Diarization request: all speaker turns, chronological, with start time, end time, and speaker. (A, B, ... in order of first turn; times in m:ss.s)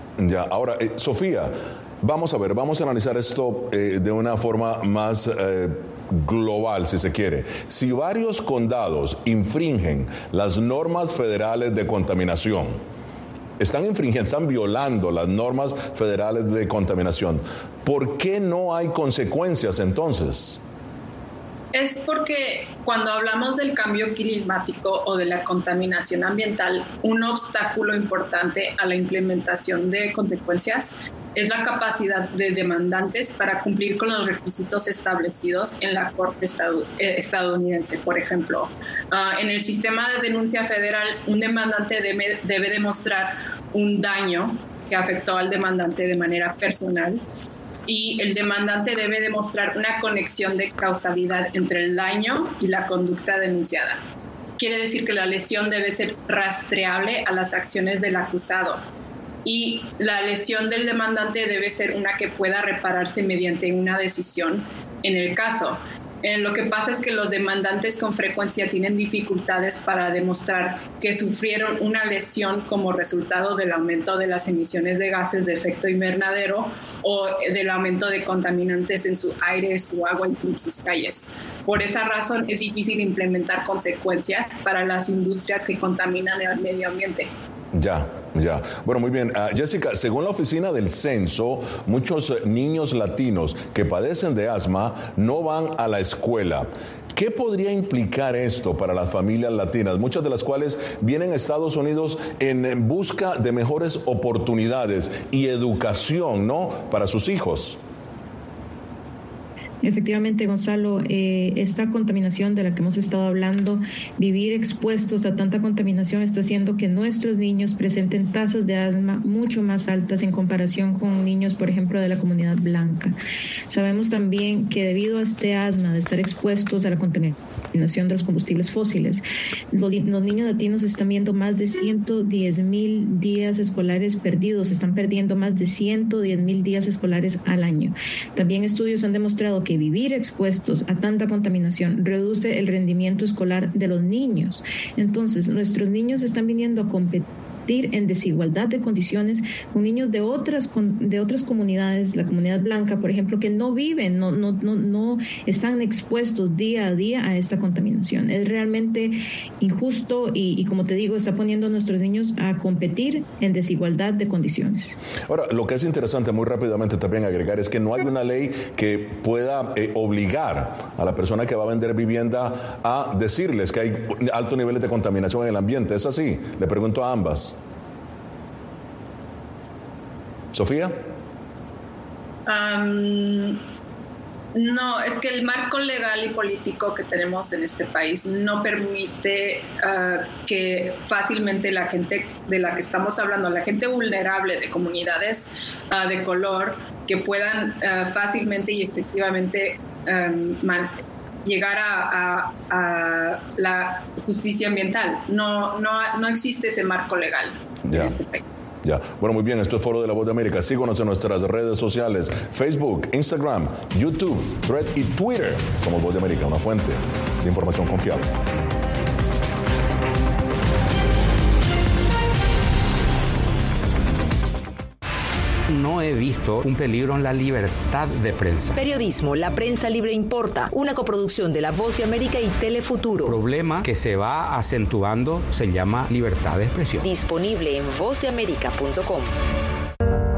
0:00.2-0:12.8 A
0:13.6-0:20.6 A
0:21.7-0:47.2 B
0:47.9-0:54.0 B
0:54.6-0:58.8 B
0:59.4-1:27.3 B
1:27.7-1:47.8 A
1:49.8-2:03.2 C
2:03.7-2:45.0 C
2:45.3-2:57.6 A
3:00.5-3:00.9 A
3:02.5-3:03.6 B
3:04.5-3:28.4 B
3:27.9-3:28.2 A
3:28.8-3:38.3 A
3:45.7-3:48.8 D
3:48.8-3:53.1 E
3:53.2-3:57.0 D
3:57.0-3:59.3 E